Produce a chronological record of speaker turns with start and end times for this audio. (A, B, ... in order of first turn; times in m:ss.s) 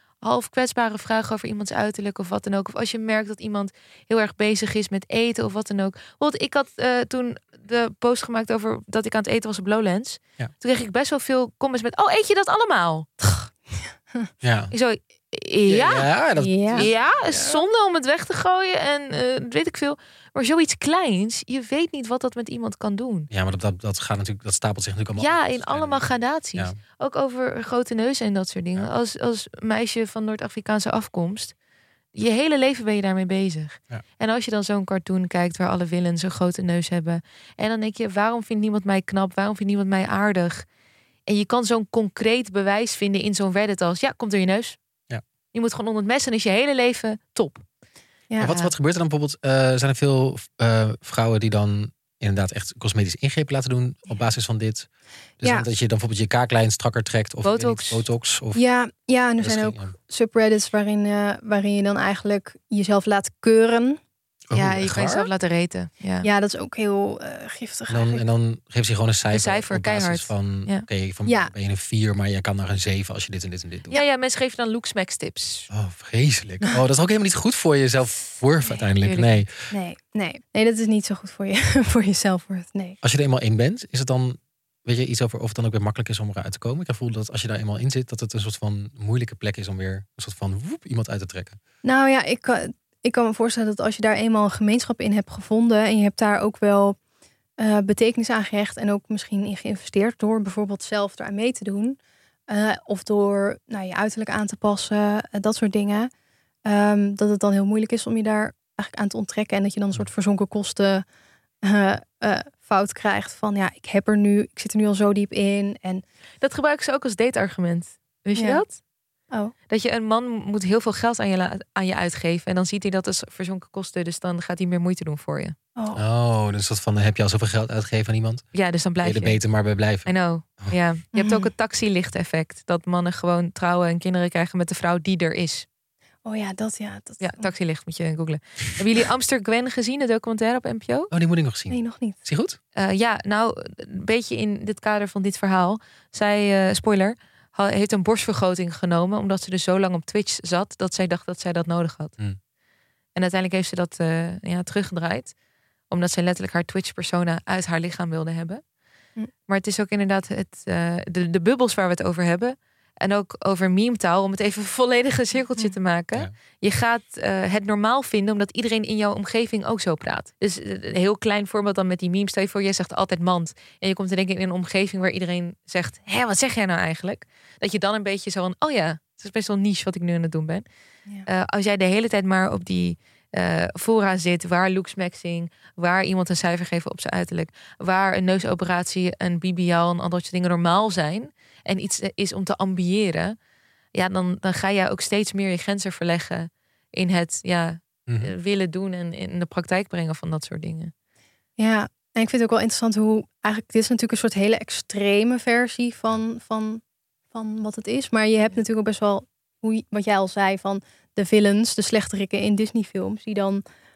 0:00.2-0:13.1 A
0:13.2-0:13.6 B
0:14.4-0:14.7 C
0:14.7-0:16.2 A
0:15.7-0:17.6 C
0:16.4-0:16.9 B
0:16.7-0:23.3 A
0:23.3-0:26.8 C
0:25.2-0:31.5 A
0:32.2-0:40.6 A
0:41.3-0:44.8 A
0:45.5-0:47.6 A
0:48.3-0:48.7 B
0:48.4-0:54.9 C
0:55.4-0:58.6 C
0:57.4-0:58.0 A
0:58.5-1:04.0 B
0:59.4-0:59.9 C
1:04.5-1:05.3 C
1:04.5-1:06.3 A
1:06.2-1:08.2 B
1:07.9-1:13.9 C
1:09.3-1:10.9 A
1:11.2-1:11.5 B
1:13.9-1:15.7 A
1:15.7-1:19.5 C
1:19.0-1:19.5 A
1:19.7-1:23.0 B
1:23.0-1:31.6 C
1:31.8-1:37.0 B
1:37.6-1:42.0 B
1:42.5-1:46.1 B
1:46.7-1:51.0 B
1:51.6-1:56.0 B
1:56.4-1:58.8 A
1:58.4-1:58.6 B
1:59.7-2:05.6 A
2:05.8-2:06.0 B
2:06.0-2:08.5 C
2:08.5-2:09.4 A
2:09.0-2:10.1 C
2:10.0-2:15.7 A
2:11.2-2:11.5 B
2:16.2-2:17.5 B
2:17.2-2:21.1 A
2:21.1-2:22.6 C
2:21.7-2:22.2 B
2:22.8-2:32.2 A
2:33.2-2:35.3 A
2:35.9-2:38.6 A
2:39.5-3:00.7 A
3:01.3-3:13.4 A
3:14.0-3:20.9 A
3:18.1-3:18.3 C
3:21.6-3:26.8 B
3:27.3-3:33.6 B